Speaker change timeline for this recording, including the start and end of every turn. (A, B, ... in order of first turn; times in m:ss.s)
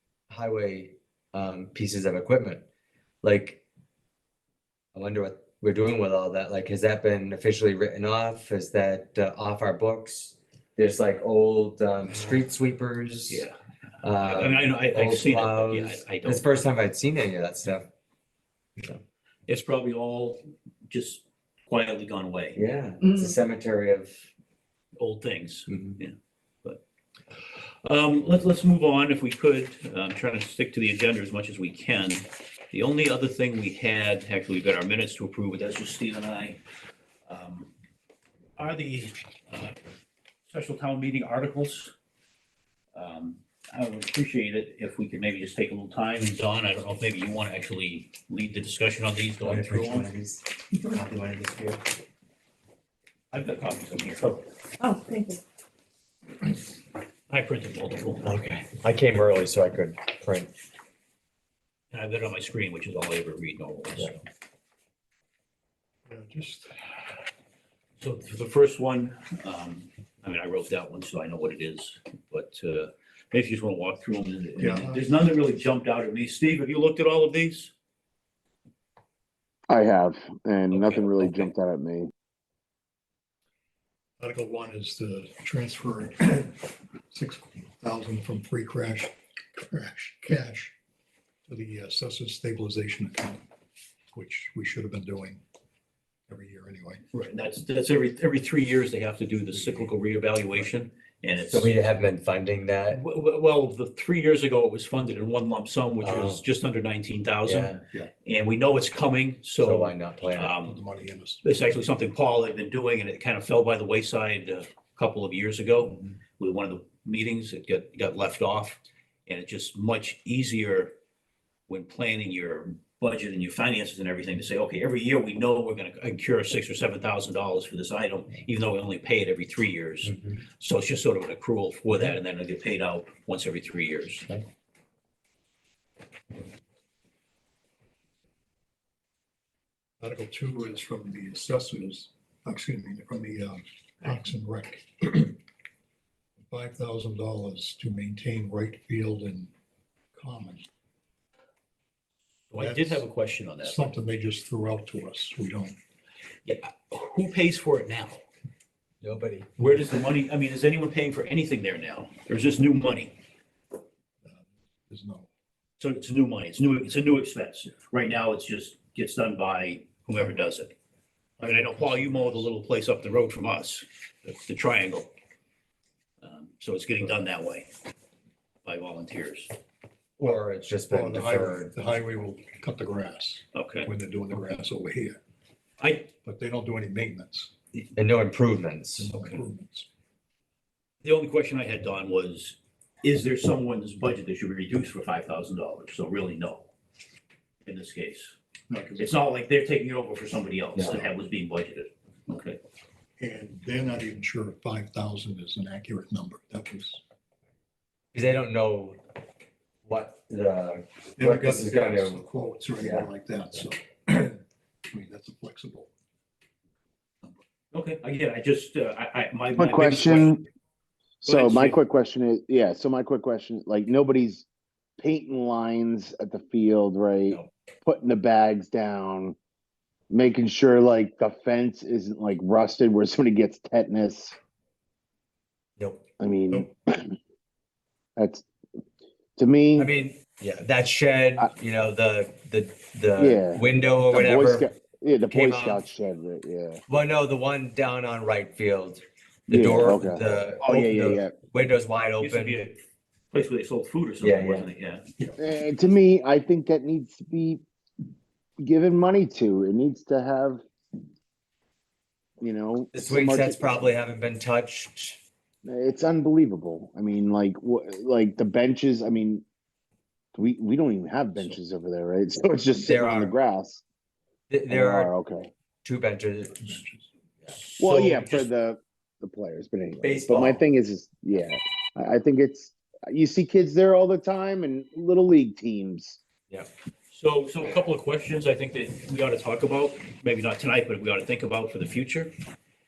0:00.3-0:02.6 A
0:03.2-0:03.6 A
0:05.0-0:13.5 A
0:13.3-0:13.6 B
0:14.0-0:17.9 A
0:14.2-0:16.6 B
0:19.5-0:22.6 B
0:22.6-0:24.2 A
0:25.0-0:26.8 B
0:27.3-0:36.6 B
0:37.2-0:37.7 B
0:38.6-0:39.8 B
0:40.5-0:41.9 B
0:42.9-0:50.1 B
0:49.4-0:51.8 A
0:53.3-0:54.5 B
0:57.3-0:58.3 B
0:58.2-1:00.5 A
1:01.9-1:04.2 B
1:06.1-1:07.1 C
1:08.0-1:17.7 B
1:14.6-1:15.0 C
1:19.7-1:22.1 D
1:20.7-1:21.5 B
1:24.2-1:30.7 C
1:31.5-1:33.4 C
1:34.1-1:35.4 C
1:36.3-1:37.0 C
1:37.1-1:41.7 B
1:39.5-1:39.9 C
1:41.5-1:43.0 A
1:42.9-1:50.8 B
1:46.0-1:46.4 A
1:47.4-1:47.8 A
1:49.6-1:50.6 A
1:50.6-1:51.4 C
1:51.4-2:00.9 B
2:01.7-2:14.4 B
2:20.0-2:25.4 C
2:26.5-2:29.5 C
2:30.2-2:30.6 C
2:32.5-2:33.9 B
2:32.6-2:33.0 C
2:33.6-2:35.8 C
2:36.4-2:38.2 B
2:39.0-2:39.5 A
2:39.6-2:43.1 B
2:44.2-2:45.3 C
2:45.8-2:50.7 B
2:51.4-2:52.5 C
2:51.4-2:55.1 B
2:56.2-2:57.7 B
2:58.6-2:59.5 B
3:00.2-3:01.7 A
3:00.9-3:05.2 C
3:03.5-3:03.9 B
3:05.8-3:06.1 B
3:06.2-3:07.5 C
3:07.9-3:09.1 A
3:09.0-3:09.9 C
3:11.0-3:16.7 B
3:17.6-3:18.3 B
3:18.7-3:19.1 C
3:19.0-3:22.6 B
3:20.8-3:21.1 C
3:23.2-3:27.0 C
3:28.1-3:29.0 A
3:29.8-3:32.2 A
3:31.2-3:35.9 C
3:32.8-3:33.6 A
3:37.7-3:40.4 B
3:39.6-3:40.4 D
3:41.2-3:44.4 D
3:41.2-3:41.8 B
3:45.0-3:49.4 D
3:50.1-3:54.3 D
3:55.8-3:56.0 A
3:56.2-3:57.2 D
3:58.2-3:58.4 D
3:59.4-3:59.9 D
3:59.8-4:04.7 A
4:03.2-4:06.8 D
4:05.2-4:05.8 A
4:06.9-4:12.6 A
4:09.5-4:11.3 D
4:12.2-4:12.8 B
4:13.3-4:15.1 B
4:14.2-4:14.7 A
4:15.4-4:17.6 D
4:18.6-4:20.6 D
4:22.4-4:23.8 D
4:22.9-4:25.2 A
4:25.6-4:29.4 D
4:30.4-4:33.8 D
4:32.8-4:33.4 A
4:34.5-4:35.1 A
4:34.7-4:35.5 D
4:35.8-4:36.8 A
4:36.6-4:37.1 C
4:37.5-4:38.4 B
4:37.8-4:46.2 D
4:40.0-4:40.6 A
4:47.1-4:52.3 B